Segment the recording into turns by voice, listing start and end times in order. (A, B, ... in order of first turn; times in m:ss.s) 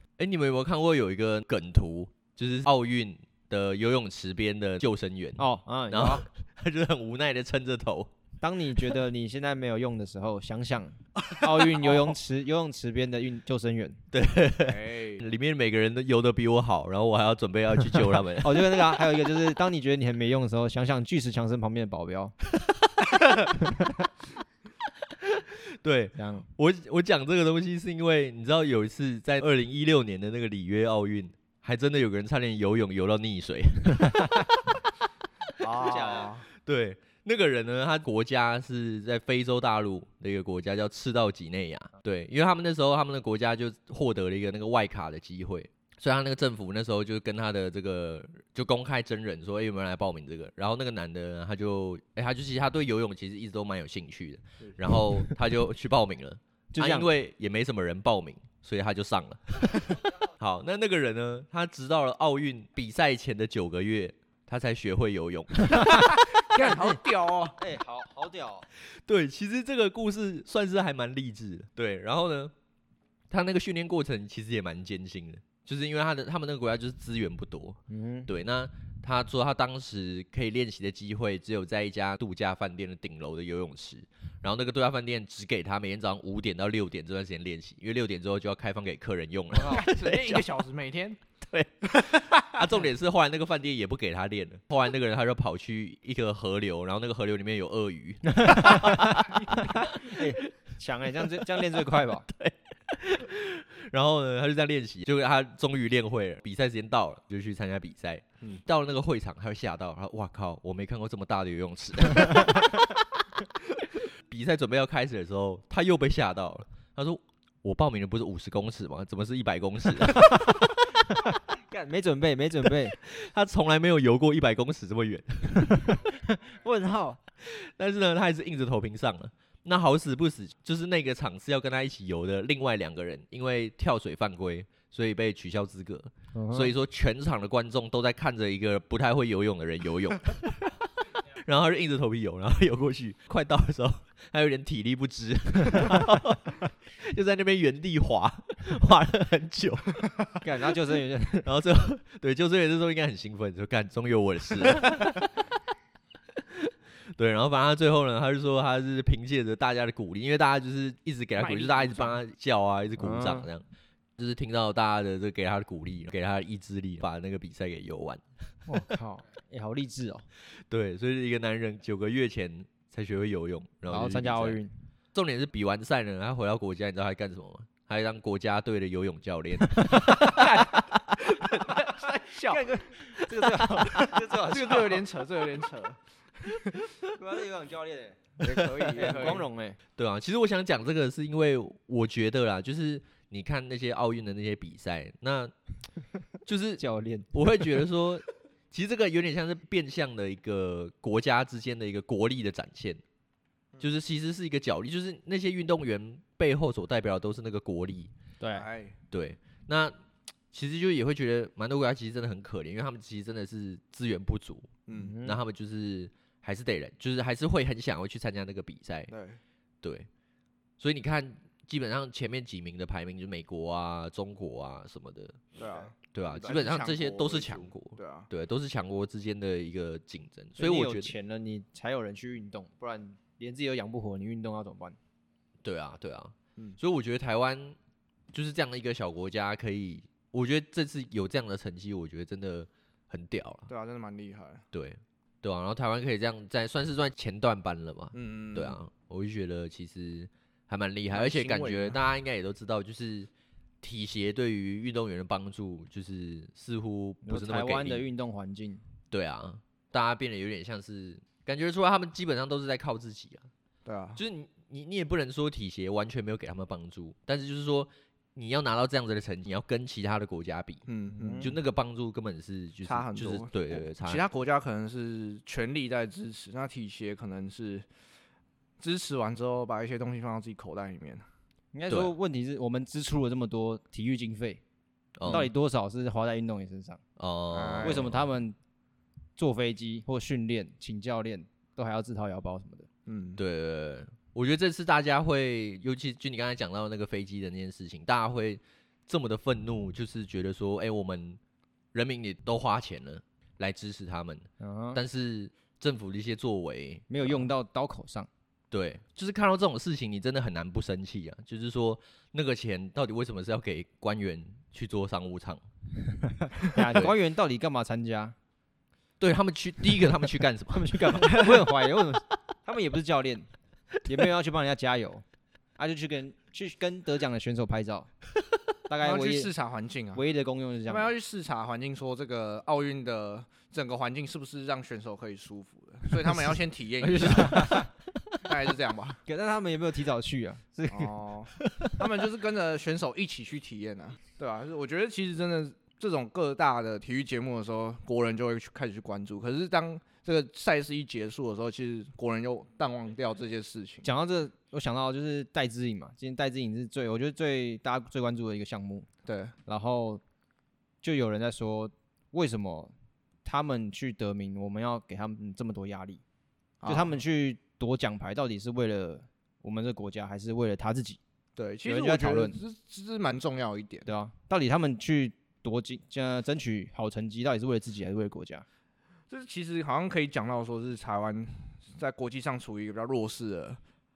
0:00.2-0:08.1 A
0:05.4-0:06.2 B
0:08.4-0:14.0 B
0:14.1-0:18.9 A
0:14.7-0:15.3 C
0:18.4-0:22.3 B
0:22.6-0:23.5 A
0:23.6-0:24.1 B
0:25.2-0:34.8 A
0:26.2-0:26.5 B
0:35.6-0:36.5 C
0:35.7-0:36.3 B
0:36.0-1:06.2 A
0:56.7-0:57.1 B
1:05.7-1:07.0 B
1:06.0-1:07.6 C
1:07.6-1:08.7 B
1:08.8-1:12.5 A
1:13.3-1:30.5 A
1:17.9-1:18.3 B
1:29.6-1:29.8 B
1:29.6-1:31.2 C
1:31.4-1:40.5 A
1:32.0-1:32.7 C
1:38.3-1:42.3 B
1:41.1-1:53.0 A
1:53.8-2:00.8 A
2:00.1-2:02.9 B
2:02.9-2:06.1 A
2:05.7-2:07.2 B
2:07.4-2:30.0 A
2:16.3-2:16.7 B
2:30.4-2:31.5 B
2:31.4-2:35.3 A
2:36.4-2:43.6 A
2:41.4-2:42.1 B
2:43.0-2:43.5 B
2:44.2-2:48.2 A
2:48.7-2:50.2 B
2:50.5-2:54.6 A
2:53.9-2:54.7 B
2:55.1-3:01.8 A
3:00.2-3:02.6 C
3:02.4-3:05.0 B
3:04.3-3:06.9 C
3:07.1-3:08.3 B
3:08.4-3:09.1 A
3:08.4-3:09.5 C
3:08.9-3:09.8 B
3:10.0-3:15.5 A
3:16.4-3:23.0 A
3:16.8-3:17.7 B
3:23.8-3:28.1 A
3:28.4-3:28.6 B
3:28.5-3:29.0 C
3:29.1-3:30.0 A
3:30.5-3:39.1 A
3:34.9-3:35.2 C
3:34.9-3:35.4 B
3:39.1-3:39.4 C
3:39.8-3:40.1 A
3:40.8-3:45.4 A
3:45.6-3:48.3 C
3:46.1-3:51.1 A
3:50.6-3:55.0 B
3:55.6-3:57.8 A
3:58.3-4:03.7 A
4:03.7-4:04.6 C
4:04.7-4:13.3 A
4:08.1-4:08.8 C
4:11.1-4:12.0 C
4:13.8-4:18.0 A
4:17.2-4:18.8 B
4:19.1-4:23.5 A
4:23.8-4:24.2 C
4:24.2-4:30.8 A
4:30.9-4:31.5 C
4:31.1-4:31.5 B
4:31.4-4:34.2 A
4:32.8-4:37.8 C
4:38.8-4:41.2 C
4:41.7-4:44.6 B
4:45.2-4:45.5 A
4:45.2-4:47.0 B
4:47.2-4:48.2 A
4:47.5-4:48.1 C
4:47.8-4:48.6 B
4:49.4-4:52.9 B
4:53.1-4:53.4 C
4:53.4-5:01.4 A
5:01.9-5:07.4 A
5:04.6-5:05.0 B
5:07.1-5:08.3 B
5:08.7-5:15.6 A
5:16.2-5:18.3 B
5:19.2-5:21.2 A
5:20.7-5:23.5 B
5:24.0-5:25.2 B
5:25.8-5:28.1 B
5:28.9-5:29.5 B
5:29.0-5:30.2 C
5:30.1-5:31.1 B
5:30.9-5:37.9 C
5:36.3-5:37.9 B
5:38.4-5:39.2 C
5:39.2-5:41.2 B
5:40.9-5:54.1 C
5:54.0-5:59.0 B
5:59.2-5:59.5 C
5:59.6-6:00.2 B
6:01.0-6:02.9 B
6:03.4-6:06.2 B
6:06.8-6:07.2 C
6:06.8-6:11.2 B
6:11.6-6:14.1 C
6:11.8-6:12.6 B
6:14.0-6:18.6 B
6:19.3-6:23.8 C